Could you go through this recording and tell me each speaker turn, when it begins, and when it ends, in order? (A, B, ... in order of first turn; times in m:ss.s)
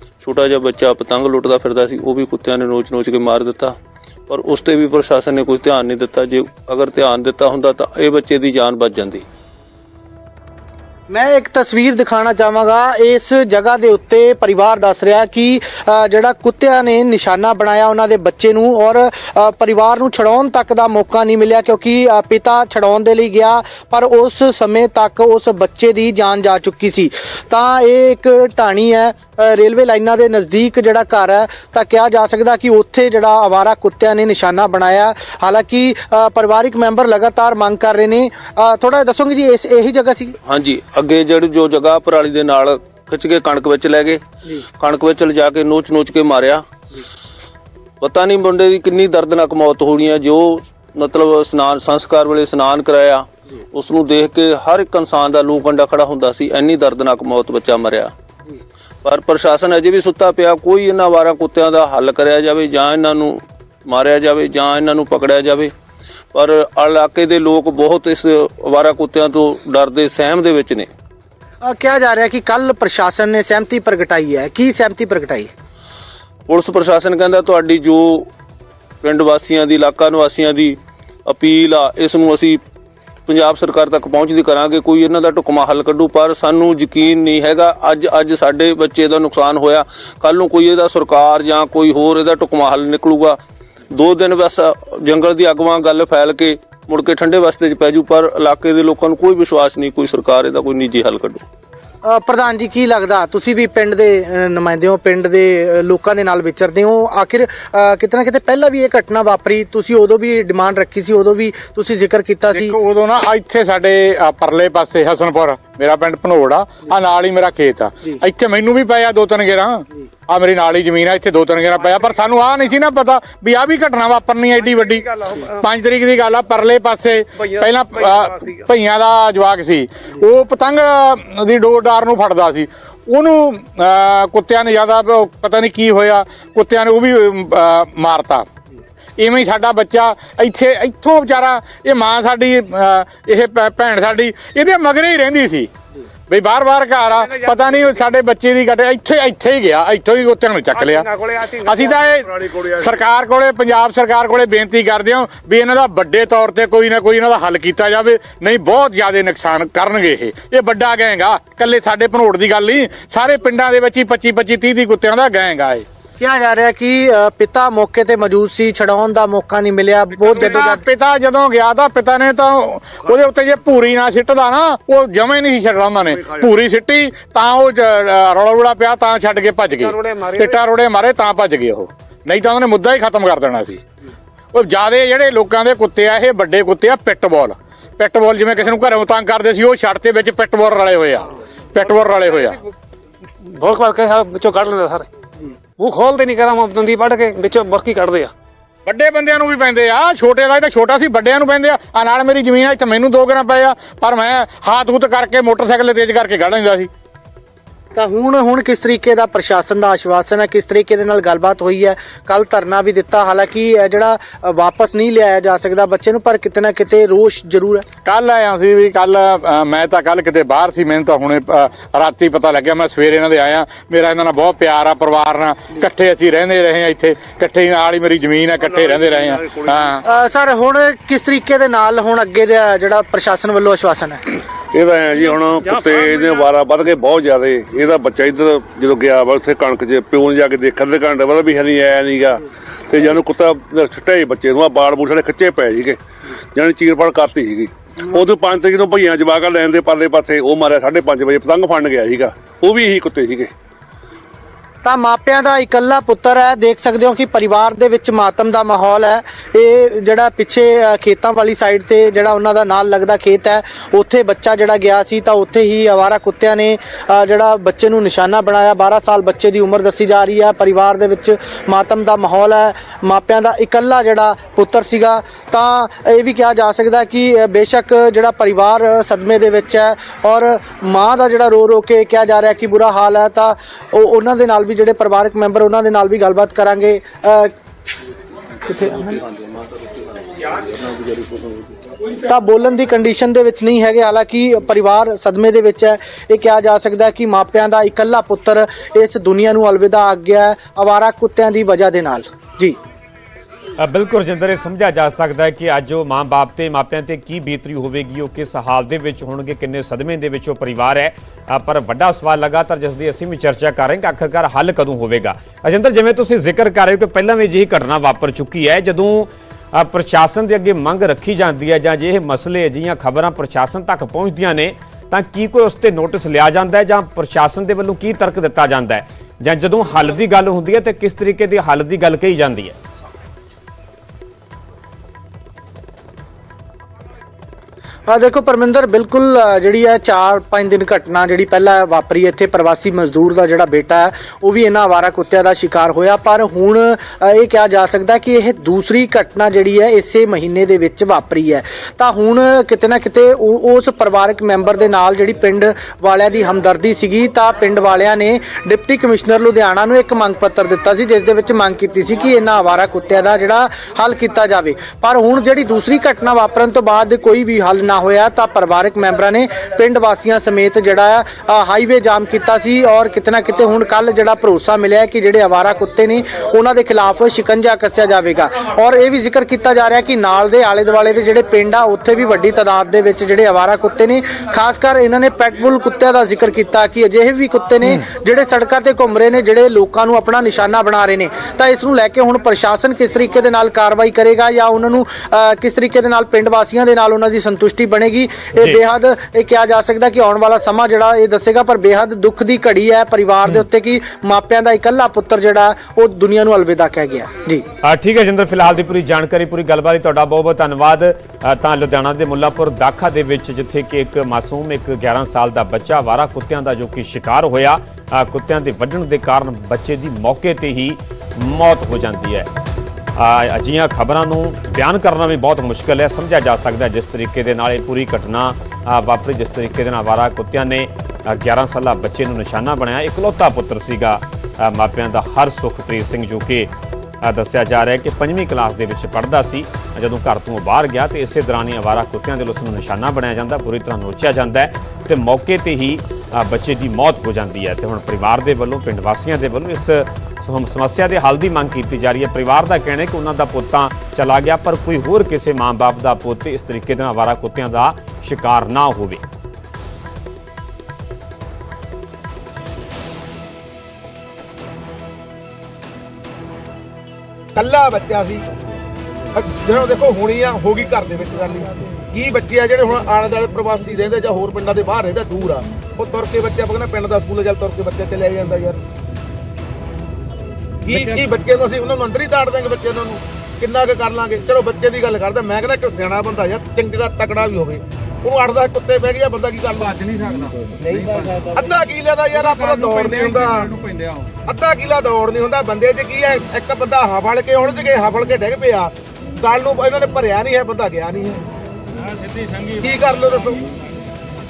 0:00.2-0:03.8 A
0:04.3-0:09.2 A
0:11.1-0:40.4 B
0:40.4-0:44.2 A
0:44.8-0:46.6 A
0:48.0-0:58.1 A
0:59.0-1:05.7 A
1:06.3-1:10.9 A
1:11.6-1:15.5 B
1:16.5-1:18.3 A
1:19.0-1:22.6 A
1:23.3-1:33.4 A
1:33.9-1:41.4 A
1:42.0-1:52.8 B
1:52.5-2:18.5 C
2:04.8-2:05.3 D
2:19.2-2:25.7 C
2:26.3-2:45.8 C
2:30.9-2:31.9 D
2:46.2-2:50.8 B
2:50.2-3:03.8 C
3:00.0-3:00.4 D
3:04.5-3:12.6 C
3:13.5-3:15.0 D
3:15.8-3:18.3 D
3:18.8-3:26.9 C
3:27.9-3:37.8 B
3:38.0-3:50.0 C
3:48.6-3:49.7 E
3:50.0-3:54.2 B
3:54.7-4:06.0 E
4:06.5-4:13.5 E
4:14.8-4:47.5 B
4:48.7-4:49.2 B
4:49.0-4:51.6 A
4:52.2-5:02.8 B
5:03.8-5:32.8 F
5:38.1-6:47.6 B
6:47.8-7:02.5 F
7:03.1-7:16.7 F
7:17.2-7:39.2 F
7:47.6-7:48.4 G
7:49.3-7:58.8 G
8:00.8-8:10.1 G
8:10.8-8:13.8 G
8:14.4-8:21.4 G
8:22.8-8:23.6 G